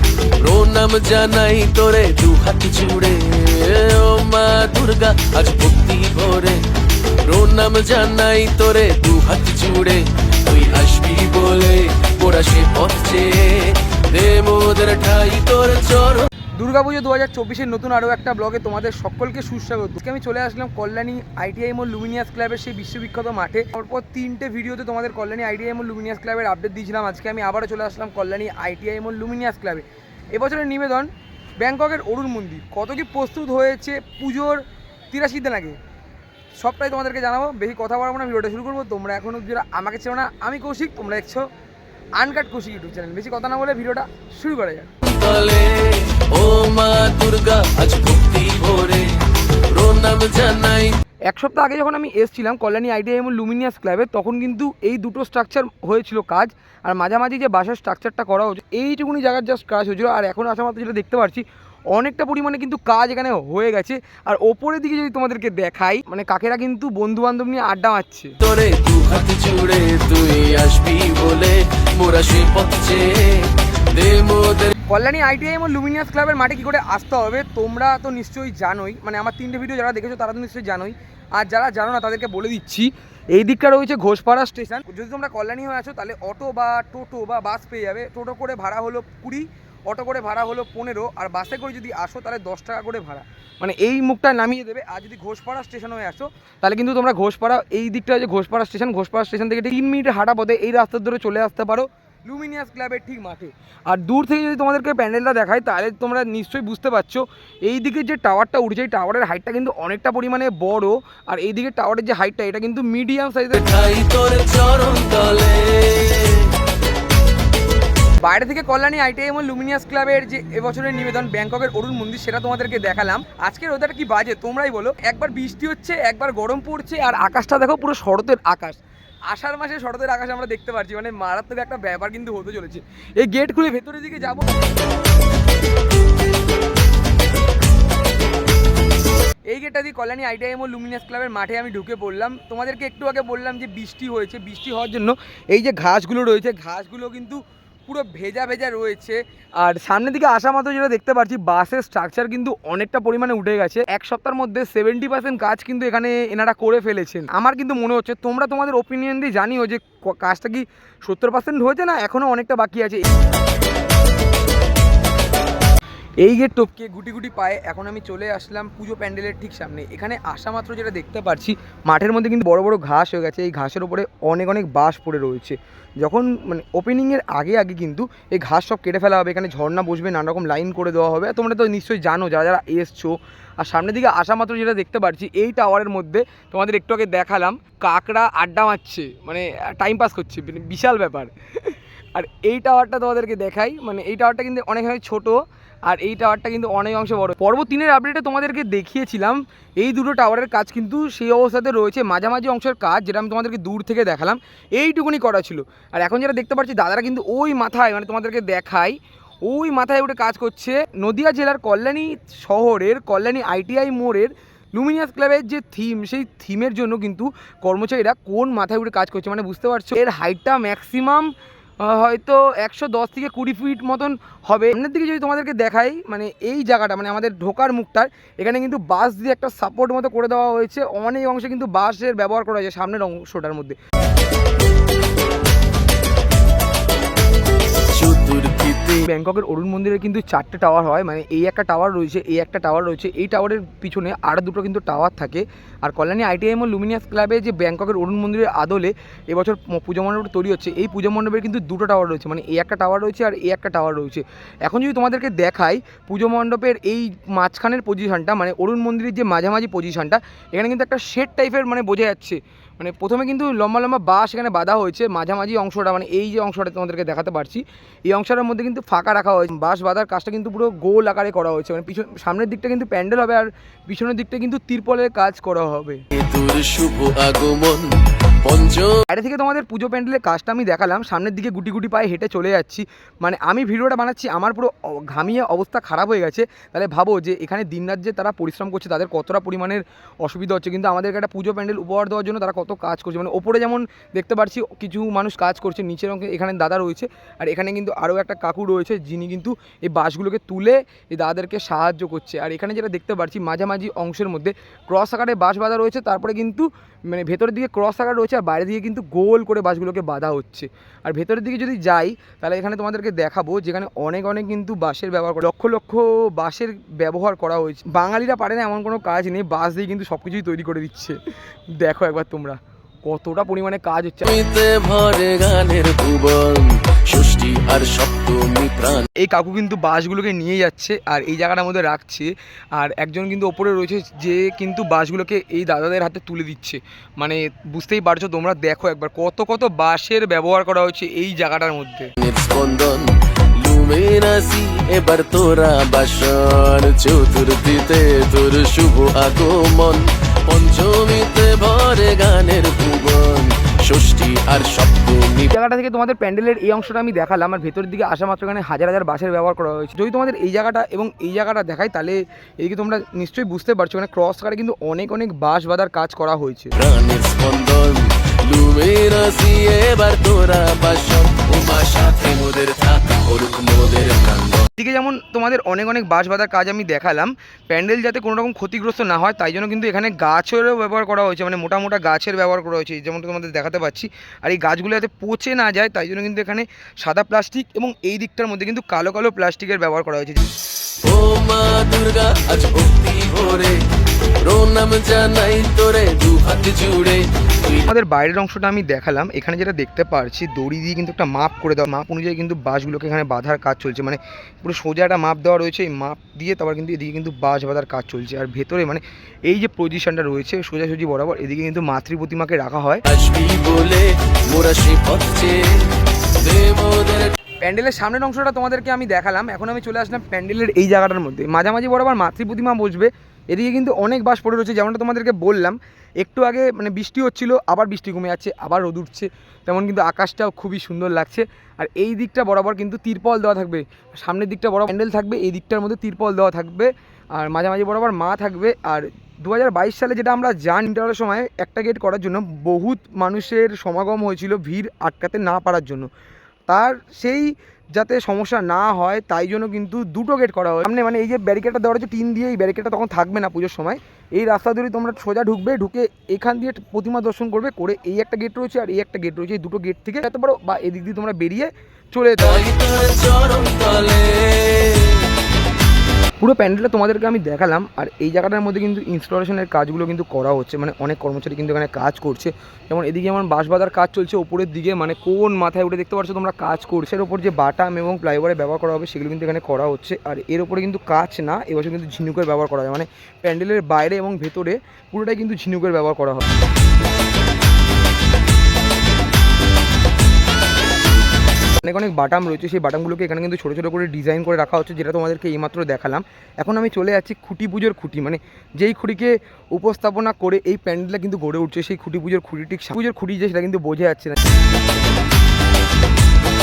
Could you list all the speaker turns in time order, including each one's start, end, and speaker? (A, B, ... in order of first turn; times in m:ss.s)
0:00.4-0:06.6 A
0:07.2-0:16.3 A
0:16.6-0:35.8 B
0:36.6-0:41.5 B
0:42.2-0:44.9 B
0:45.1-0:49.1 A
0:49.7-0:51.0 A
0:51.3-1:08.4 B
1:08.4-1:14.7 A
1:14.9-1:53.7 B
1:53.6-1:56.5 A
1:58.2-2:14.4 B
2:19.5-2:43.1 B
2:46.2-3:53.8 B
3:57.9-3:59.0 A
3:59.0-4:36.0 B
4:36.2-4:39.0 A
4:39.1-5:21.2 B
5:21.8-5:24.3 B
5:24.3-5:29.1 A
5:29.2-5:42.1 B
5:42.2-5:55.5 A
5:55.5-6:06.7 B
6:06.8-6:14.7 A
6:14.8-6:30.5 B
6:31.0-6:33.8 A
6:34.4-6:37.9 A
6:37.9-6:53.0 B
6:53.1-6:55.9 A
6:56.4-6:57.4 A
6:57.6-7:26.1 B
7:26.7-7:42.7 B
7:42.4-7:45.3 A
7:46.4-8:06.4 B
8:11.8-8:24.4 B